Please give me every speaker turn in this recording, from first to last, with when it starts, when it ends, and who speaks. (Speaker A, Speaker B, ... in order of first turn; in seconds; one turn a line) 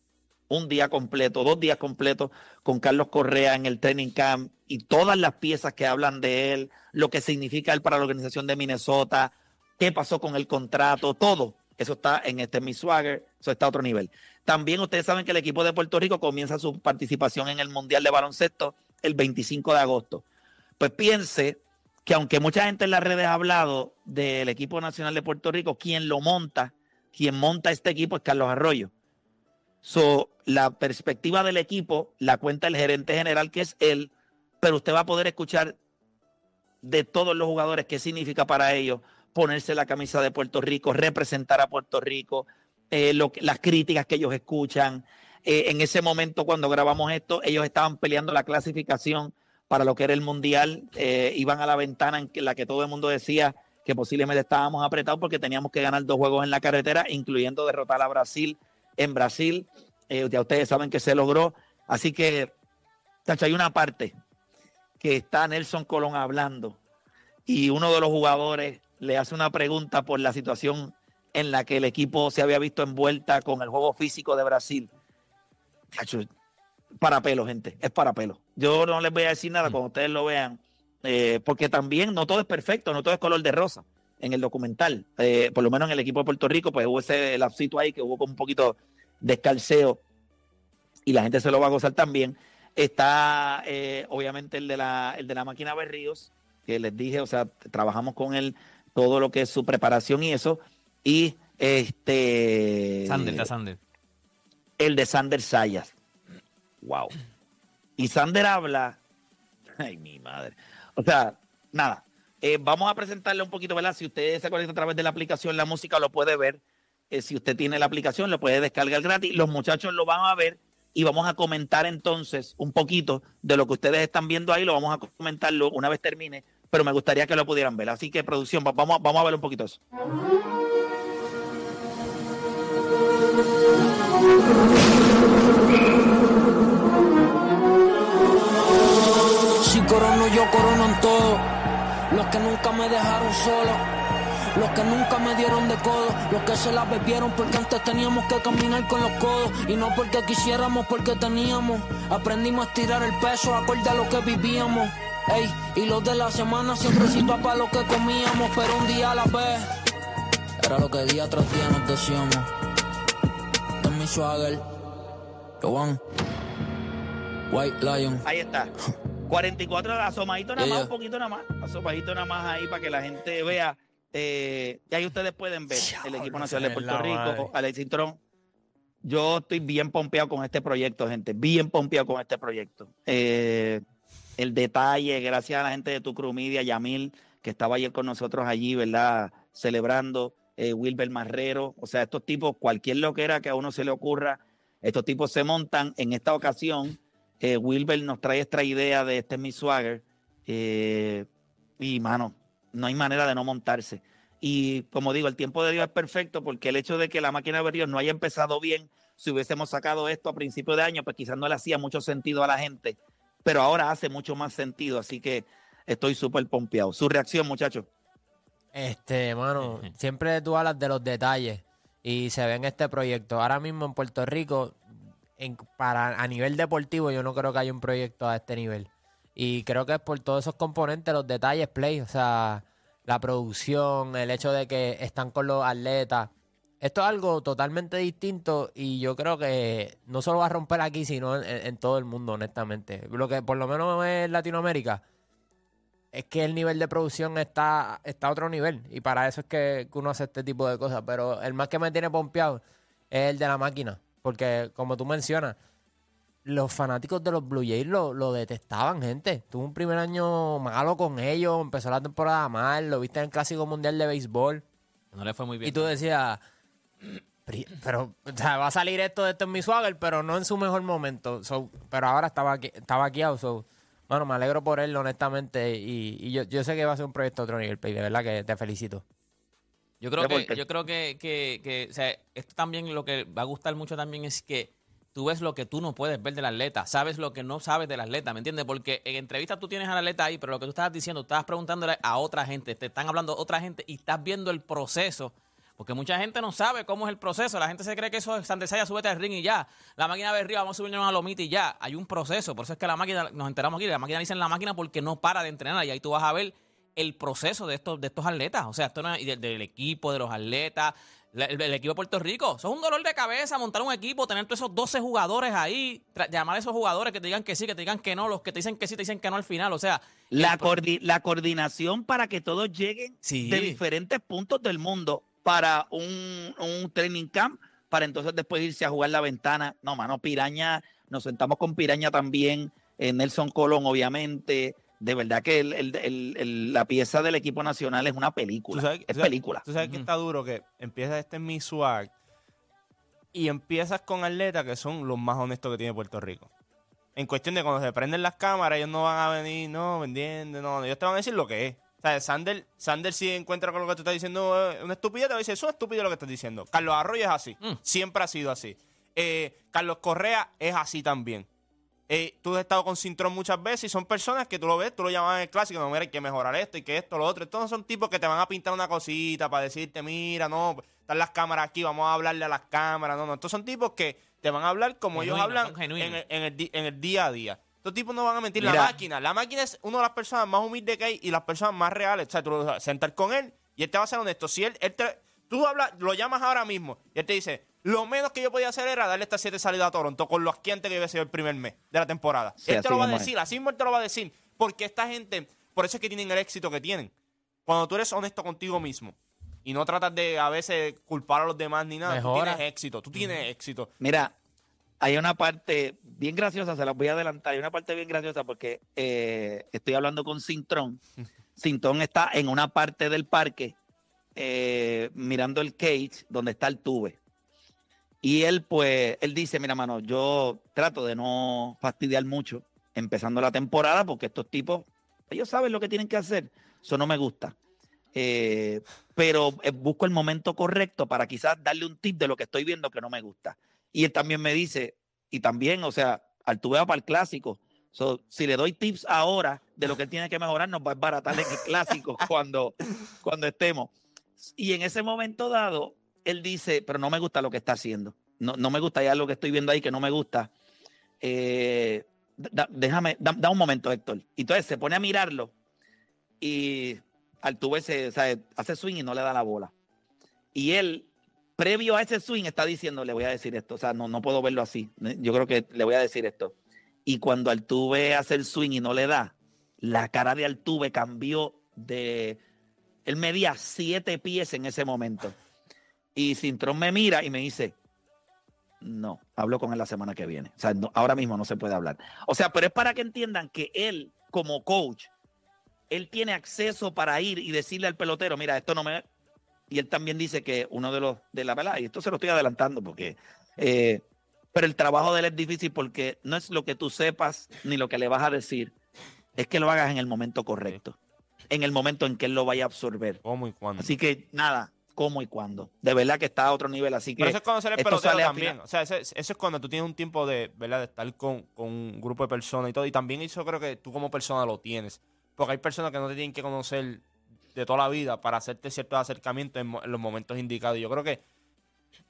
Speaker A: 0.5-20.2
Speaker A: 20.8-28.9
Speaker A: 29.8-35.8
Speaker A: 36.8-62.5
Speaker A: 63.2-64.1
Speaker A: 65.0-66.8
Speaker A: 67.5-74.9
Speaker A: 75.9-76.3
Speaker A: 77.0-90.0
Speaker A: 91.0-103.5
Speaker B: 103.1-103.8
Speaker A: 104.8-105.9
Speaker A: 106.8-107.1
Speaker A: 108.0-109.0
Speaker A: 109.8-129.8
Speaker C: 139.6-141.4
Speaker C: 142.1-143.8
Speaker C: 144.5-159.7
Speaker C: 160.6-162.5
Speaker C: 163.8-164.6
Speaker C: 165.6-166.0
Speaker C: 167.5-168.2
Speaker A: 168.2-168.7
Speaker A: 169.3-178.2
Speaker C: 170.6-170.9
Speaker D: 175.7-177.5
Speaker A: 179.0-183.8
Speaker A: 184.4-201.3
Speaker A: 201.8-217.9
Speaker D: 218.7-224.8
Speaker B: 219.6-219.9
Speaker D: 225.4-245.0
Speaker D: 246.1-255.6
Speaker D: 256.4-264.6
Speaker B: 265.1-265.9
Speaker D: 265.6-266.4
Speaker D: 267.4-279.0
Speaker B: 280.0-320.8
Speaker A: 280.2-280.6
Speaker A: 320.3-339.6
Speaker B: 323.2-323.8
Speaker E: 338.7-342.1
Speaker B: 339.8-340.1
Speaker E: 343.3-346.5
Speaker E: 347.1-361.4
Speaker E: 362.1-397.1
Speaker B: 375.1-376.2
Speaker A: 378.6-378.9
Speaker A: 392.6-393.3
Speaker E: 397.6-403.9
Speaker D: 402.1-402.6
Speaker A: 404.0-404.3
Speaker A: 405.0-411.0
Speaker A: 411.6-413.7
Speaker A: 414.4-417.2
Speaker A: 418.2-427.6
Speaker A: 428.1-450.5
Speaker A: 451.2-455.5
Speaker A: 456.4-459.7
Speaker A: 460.5-466.5
Speaker A: 467.1-472.4
Speaker A: 473.1-475.4
Speaker A: 476.1-477.7
Speaker A: 478.8-485.1
Speaker A: 485.9-489.0
Speaker A: 489.7-498.7
Speaker A: 499.4-500.9
Speaker A: 501.5-503.2
Speaker E: 503.2-503.9
Speaker A: 503.8-508.6
Speaker E: 507.2-521.2